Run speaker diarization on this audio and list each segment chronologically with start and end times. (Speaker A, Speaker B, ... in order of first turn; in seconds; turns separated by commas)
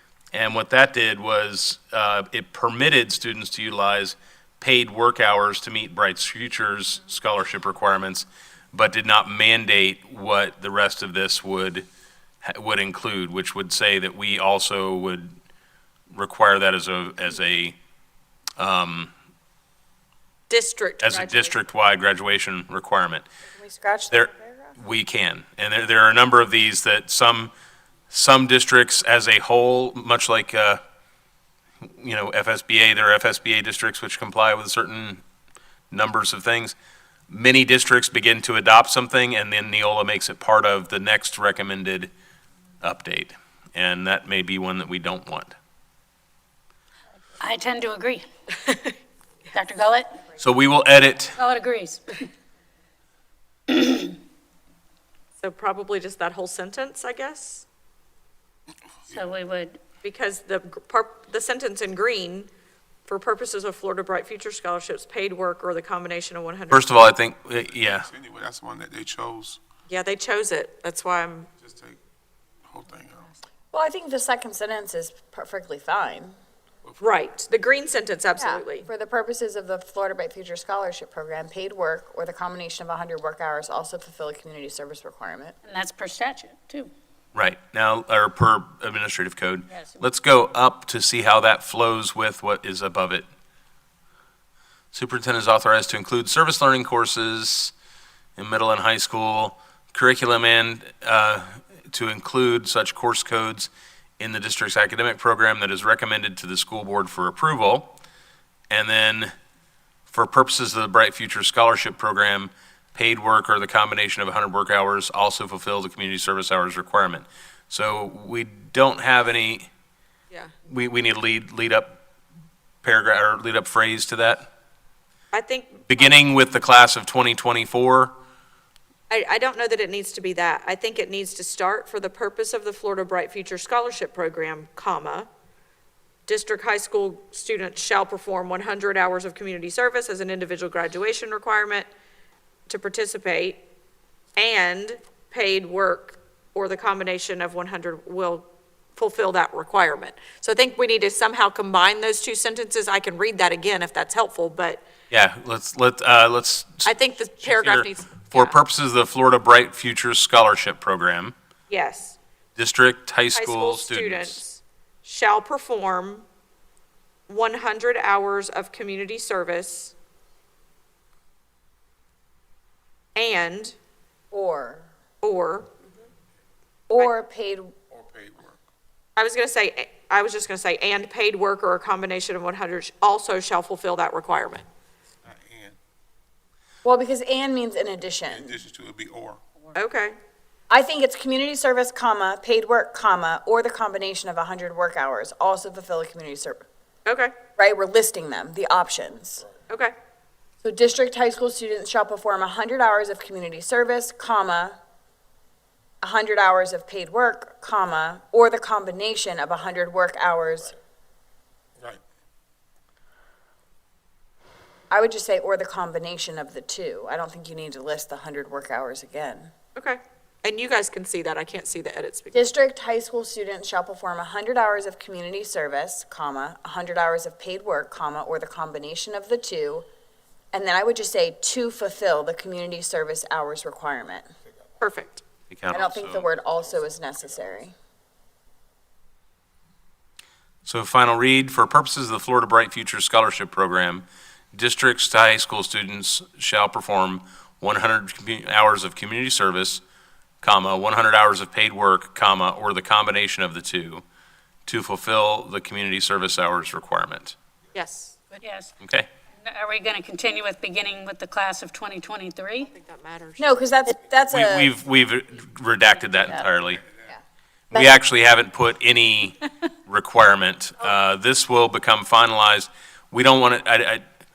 Speaker A: 0.3-11.8, Speaker A: 12.4-15.3, Speaker A: 16.1-17.8, Speaker A: 18.6-19.1, Speaker B: 20.5-21.6, Speaker A: 21.0-23.2, Speaker C: 23.5-24.8, Speaker A: 24.1-27.5, Speaker A: 28.1-30.8, Speaker A: 31.8-35.2, Speaker A: 35.9-36.8, Speaker A: 37.3-42.1, Speaker A: 42.8-45.5, Speaker D: 47.4-48.2, Speaker D: 49.5-50.2, Speaker A: 50.4-51.4, Speaker D: 51.4-52.2, Speaker D: 53.7-54.1, Speaker B: 55.4-57.7, Speaker D: 59.1-59.8, Speaker B: 60.0-62.5, Speaker B: 63.1-67.0, Speaker A: 66.7-68.1, Speaker E: 68.0-69.6, Speaker B: 69.9-71.5, Speaker E: 71.6-72.0, Speaker E: 72.7-73.3, Speaker C: 73.7-76.3, Speaker B: 77.0-78.9, Speaker C: 78.4-85.6, Speaker D: 85.6-86.9, Speaker A: 87.3-93.3, Speaker D: 89.7-90.0, Speaker A: 94.9-97.7, Speaker A: 98.4-108.0, Speaker A: 108.7-109.3, Speaker A: 110.1-119.7, Speaker A: 120.7-122.0, Speaker A: 122.8-124.5, Speaker B: 125.3-125.9, Speaker A: 125.9-128.1, Speaker B: 129.1-135.3, Speaker B: 136.3-141.9, Speaker B: 142.7-143.6, Speaker B: 144.4-154.8, Speaker A: 155.1-161.3, Speaker B: 156.8-158.6, Speaker B: 161.7-162.2, Speaker A: 162.6-164.4, Speaker B: 163.3-166.3, Speaker B: 167.3-169.9, Speaker B: 173.2-173.8, Speaker C: 174.3-174.9, Speaker B: 175.2-175.7, Speaker C: 176.9-177.7, Speaker E: 177.9-178.6, Speaker B: 179.2-184.7, Speaker E: 185.2-185.8, Speaker C: 186.8-188.6, Speaker E: 188.3-189.4, Speaker B: 189.8-190.2, Speaker C: 190.7-196.7, Speaker B: 197.1-197.3, Speaker C: 197.6-199.5, Speaker C: 200.6-204.8, Speaker C: 206.0-210.7, Speaker C: 214.9-219.5, Speaker B: 219.8-222.5, Speaker C: 222.3-229.9, Speaker C: 230.5-234.3, Speaker B: 234.8-235.2, Speaker A: 235.5-236.3, Speaker C: 235.7-237.7, Speaker A: 240.7-249.8, Speaker A: 250.4-254.0, Speaker A: 254.7-257.4, Speaker B: 257.7-258.4, Speaker D: 258.4-258.7, Speaker A: 258.8-259.1, Speaker D: 259.4-262.7, Speaker B: 262.6-263.5, Speaker C: 263.4-264.7, Speaker A: 264.3-266.8, Speaker A: 267.7-274.0